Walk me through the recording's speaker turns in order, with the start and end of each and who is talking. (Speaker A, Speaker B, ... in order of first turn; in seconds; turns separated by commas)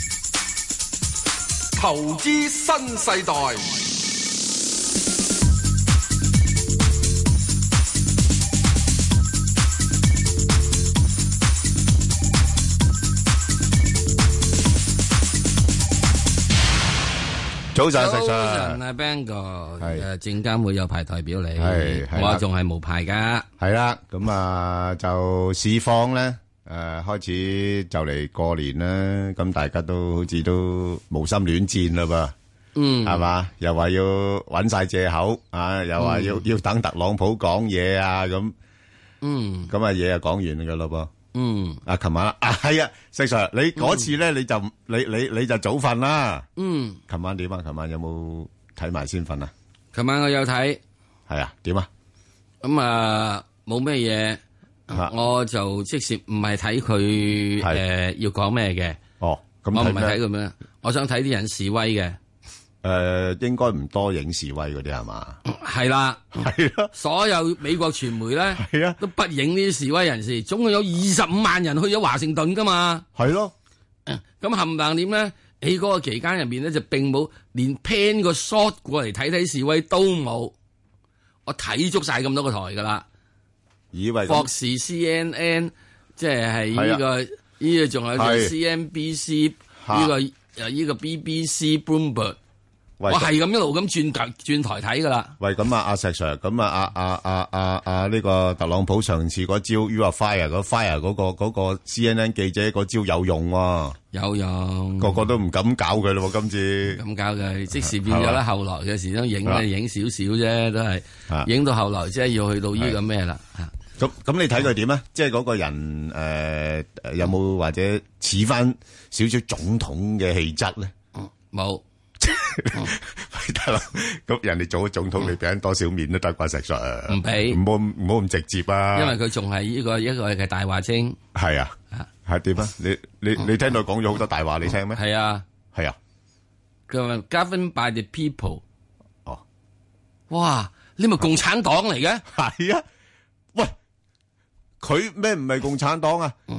Speaker A: 1.8-3.8, Speaker B: 17.7-18.8, Speaker C: 17.9-23.5, Speaker B: 19.8-20.0, Speaker B: 21.6-22.4, Speaker B: 23.6-32.3, Speaker C: 32.8-33.2, Speaker B: 33.0-38.5, Speaker C: 36.0-36.5, Speaker C: 39.2-39.7, Speaker B: 39.7-41.1, Speaker C: 41.3-41.8, Speaker B: 41.9-46.5, Speaker C: 43.8-44.1, Speaker C: 46.6-47.0, Speaker B: 47.1-49.5, Speaker C: 49.9-50.8, Speaker B: 51.3-51.9, Speaker C: 52.6-59.0, Speaker B: 59.2-60.2, Speaker C: 59.7-62.2, Speaker B: 62.8-65.4, Speaker C: 65.4-73.0, Speaker B: 66.3-66.9, Speaker B: 68.5-69.0, Speaker B: 73.1-73.5, Speaker C: 74.0-80.5, Speaker C: 81.5-83.0, Speaker B: 83.9-84.5, Speaker C: 84.3-92.4, Speaker B: 86.7-87.0, Speaker B: 88.1-88.5, Speaker B: 89.8-90.1, Speaker B: 93.0-93.3, Speaker C: 93.1-95.4, Speaker B: 95.4-104.0, Speaker C: 104.1-105.2, Speaker B: 105.0-107.0, Speaker C: 106.9-113.7, Speaker B: 107.8-108.4, Speaker B: 114.0-120.9, Speaker C: 121.2-121.8, Speaker B: 122.2-129.2, Speaker C: 127.1-127.6, Speaker C: 128.9-131.2, Speaker B: 131.3-131.7, Speaker B: 132.2-135.0, Speaker C: 134.9-135.4, Speaker C: 136.9-138.6, Speaker C: 140.3-142.2, Speaker B: 142.2-142.8, Speaker B: 144.8-146.3